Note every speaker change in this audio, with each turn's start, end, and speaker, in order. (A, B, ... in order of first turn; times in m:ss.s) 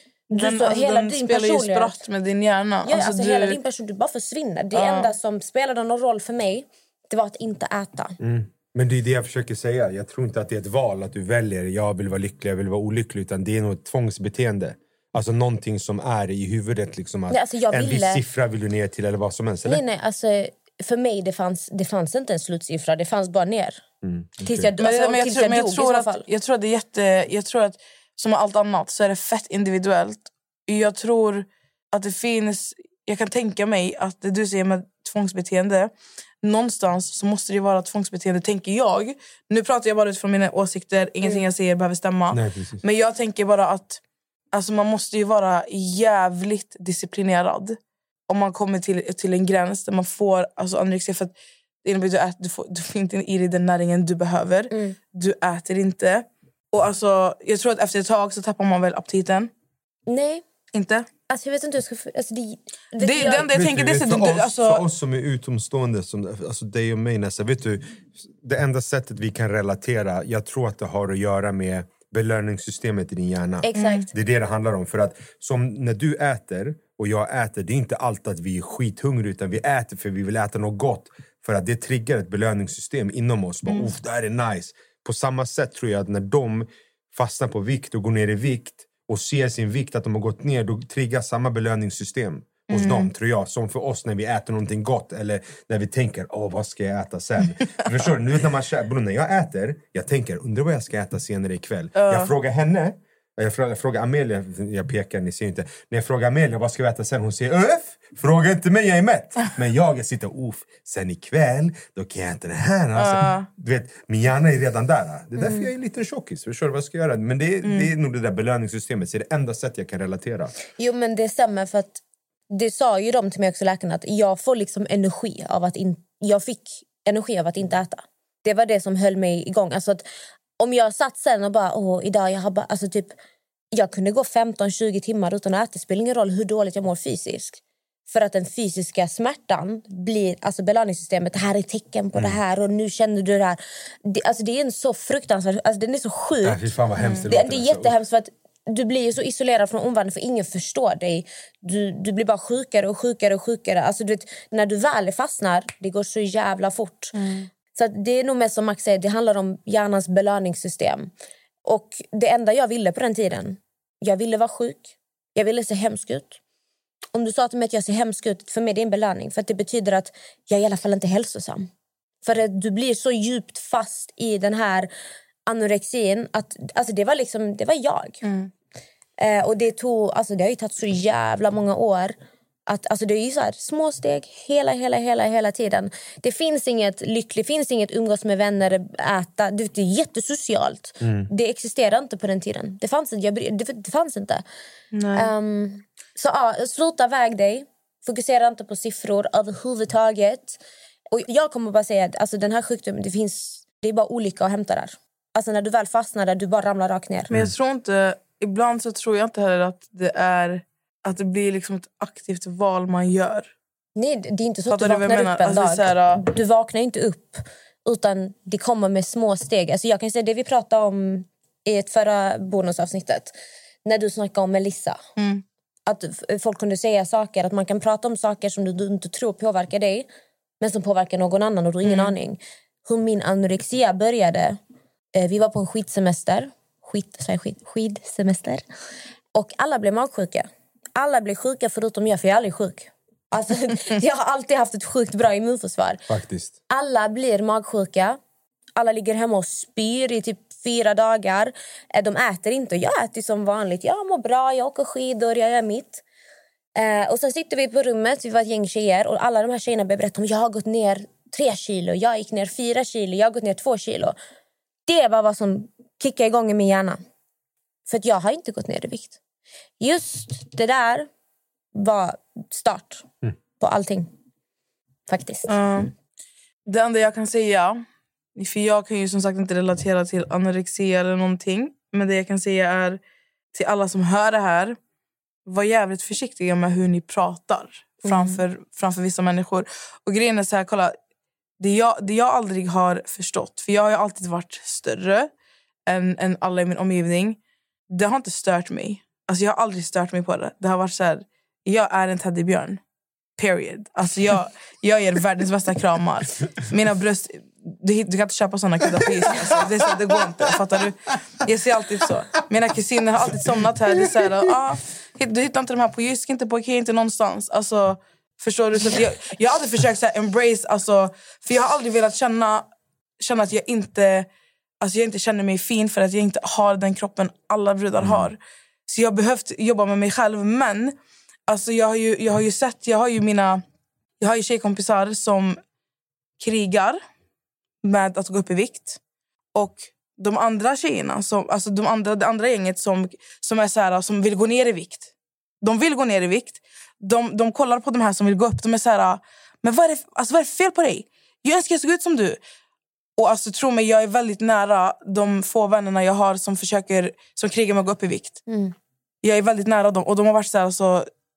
0:00.3-0:02.0 A
0:00.3-0:03.6 B
0:02.8-0:08.2 A
0:04.7-0:05.1 B
0:08.2-0:19.8 C
0:17.3-0:18.2 A
0:19.6-0:23.8 A
0:24.0-0:24.7 C
0:24.4-0:26.2 A
0:24.8-0:35.9 B
0:36.4-0:44.0 B
0:42.3-0:42.8 C
0:44.5-0:47.8 B
0:48.3-0:51.3 B
0:51.8-0:59.5 B
0:54.7-0:55.0 A
1:00.1-1:00.4 A
1:00.7-1:01.1 B
1:01.3-1:03.5 A
1:03.0-1:04.8 B
1:03.3-2:00.5 C
1:13.6-1:14.1 A
1:13.8-1:14.1 B
1:32.7-1:33.1 B
1:41.9-1:42.3 B
1:53.0-1:53.5 B
1:57.6-1:57.9 B
2:00.8-2:10.0 A
2:10.6-2:13.2 A
2:13.7-2:26.7 A
2:26.4-2:28.0 C
2:27.0-2:27.2 B
2:27.3-2:37.1 A
2:37.1-2:37.5 B
2:37.7-2:41.1 A
2:41.6-2:46.4 A
2:47.1-2:51.7 A
2:52.2-2:54.9 A
2:55.5-2:58.2 A
2:58.2-2:58.5 B
2:59.2-3:02.1 A
3:02.7-3:14.4 A
3:11.0-3:11.3 C
3:14.9-3:15.3 B
3:15.1-3:20.6 A
3:21.1-3:27.3 A
3:27.3-3:33.5 B
3:34.0-3:45.0 A
3:34.7-3:36.2 B
3:45.2-3:45.4 B
3:45.8-3:50.1 A
3:50.6-3:54.6 A
3:51.8-3:52.1 B
3:55.1-3:58.6 A
3:59.3-4:06.0 A
4:06.1-4:06.5 C
4:06.7-4:08.2 A
4:08.8-4:16.0 A
4:16.8-4:24.2 A
4:24.8-4:27.0 A
4:27.9-4:29.2 A
4:29.8-4:31.1 A
4:31.7-4:33.0 A
4:33.6-4:34.1 A
4:35.1-4:35.5 A
4:35.5-4:35.9 B
4:36.7-4:37.8 B
4:38.4-4:43.0 B
4:43.5-4:44.8 B
4:45.4-4:51.0 B
4:48.0-4:48.4 A
4:51.6-4:55.3 B
4:55.9-4:57.4 B
4:57.9-5:02.8 B
5:03.4-5:22.6 B
5:23.2-5:24.3 B
5:24.8-5:30.9 B
5:28.0-5:28.3 C
5:31.5-5:33.6 B
5:34.2-5:35.6 B
5:36.4-5:37.0 B
5:37.8-5:39.0 B
5:39.5-5:45.1 B
5:45.6-5:52.4 B
5:53.2-5:58.4 B
5:58.5-5:58.7 A
5:59.2-6:01.1 B